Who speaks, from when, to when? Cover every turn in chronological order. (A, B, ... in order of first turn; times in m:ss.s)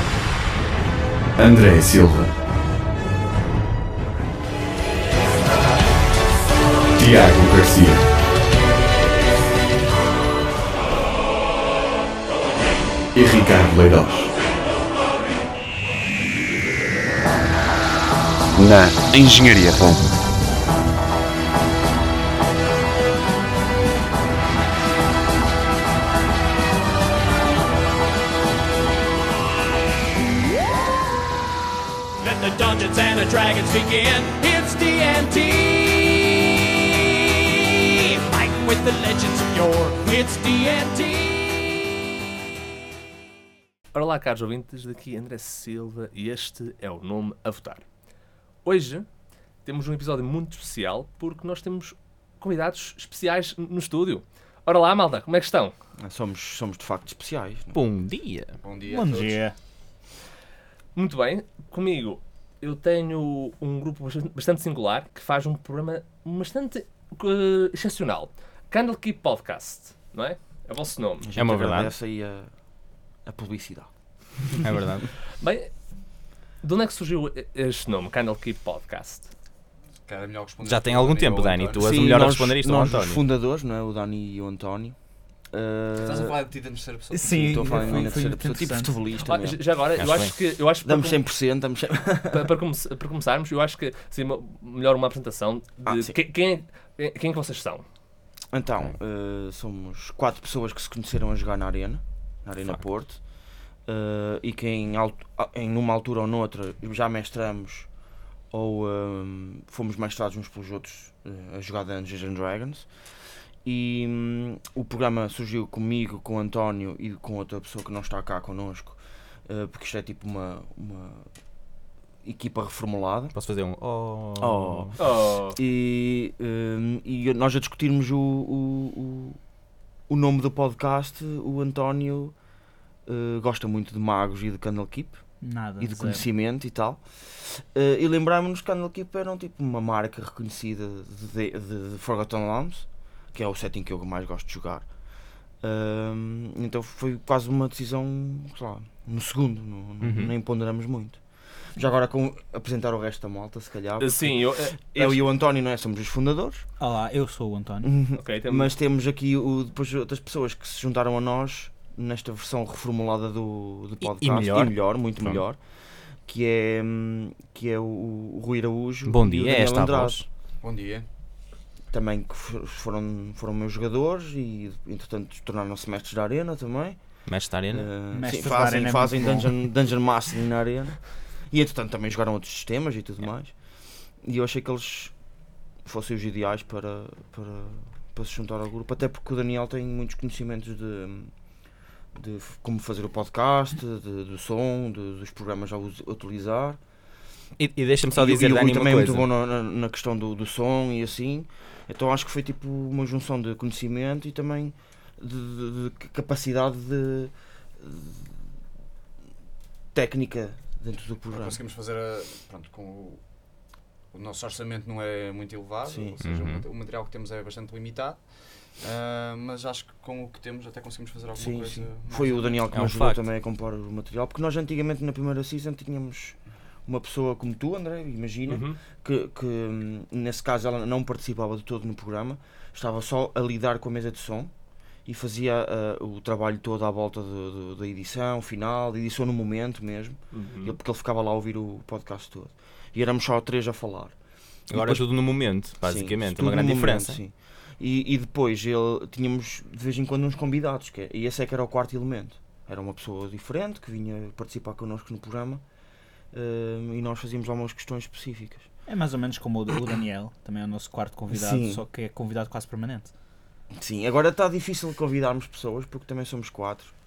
0:01.4-0:02.3 A
0:06.9-0:08.1 A
0:13.1-0:14.3 A
0:18.6-0:20.1 A
0:32.2-0:36.6 B
0:37.5-0:41.9 B
0:43.9-0:47.8 C
0:48.6-0:49.1 C
0:49.6-0:55.7 C
0:56.0-0:57.8 D
0:57.7-0:58.6 E
0:58.6-0:59.4 F
0:58.9-0:59.5 G
1:00.9-1:11.3 C
1:11.2-1:12.5 D
1:11.3-1:11.9 E
1:13.2-1:13.9 D
1:14.6-1:15.1 E
1:15.4-1:15.7 C
1:16.6-1:19.3 C
1:20.0-1:22.0 F
1:20.6-1:23.2 E
1:21.8-1:25.0 D
1:25.5-1:26.4 D
1:25.9-1:28.1 F
1:27.1-1:28.9 G
1:27.2-1:29.6 D
1:29.2-1:31.2 C
1:30.0-1:30.4 E
1:30.8-1:32.5 D
1:32.3-1:37.8 C
1:35.8-1:36.2 D
1:38.5-1:43.2 D
1:43.8-1:47.9 D
1:48.5-1:52.9 D
1:53.6-2:01.3 D
2:02.2-2:03.3 D
2:03.3-2:05.0 E
2:04.4-2:09.4 D
2:05.0-2:05.6 C
2:10.1-2:12.3 D
2:13.0-2:15.2 D
2:15.4-2:16.2 G
2:15.8-2:24.9 D
2:25.6-2:31.2 D
2:30.0-2:30.3 E
2:31.8-2:36.6 D
2:34.0-2:35.2 C
2:36.8-2:37.9 G
2:37.8-2:45.6 D
2:38.2-2:38.7 C
2:44.0-2:45.4 E
2:46.2-2:50.2 D
2:49.0-2:50.2 E
2:50.6-2:51.1 F
2:51.9-2:57.0 D
2:57.3-2:57.9 E
2:57.7-3:01.0 D
2:58.1-2:59.5 G
3:01.5-3:03.5 D
3:04.2-3:05.1 D
3:05.8-3:11.3 D
3:12.1-3:16.8 D
3:17.6-3:19.3 E
3:18.1-3:28.4 D
3:29.9-3:31.6 D
3:31.3-3:33.2 F
3:34.1-3:38.2 F
3:35.8-3:36.2 D
3:36.2-3:36.6 E
3:38.8-3:42.6 F
3:41.3-3:54.5 D
3:42.7-3:43.2 E
3:48.5-3:48.8 C
3:55.0-4:04.2 D
4:00.3-4:00.8 C
4:04.7-4:05.1 D
4:04.7-4:07.2 E
4:05.8-4:15.6 D
4:16.3-4:18.7 D
4:18.9-4:23.1 G
4:21.3-4:21.8 D
4:23.7-4:26.9 D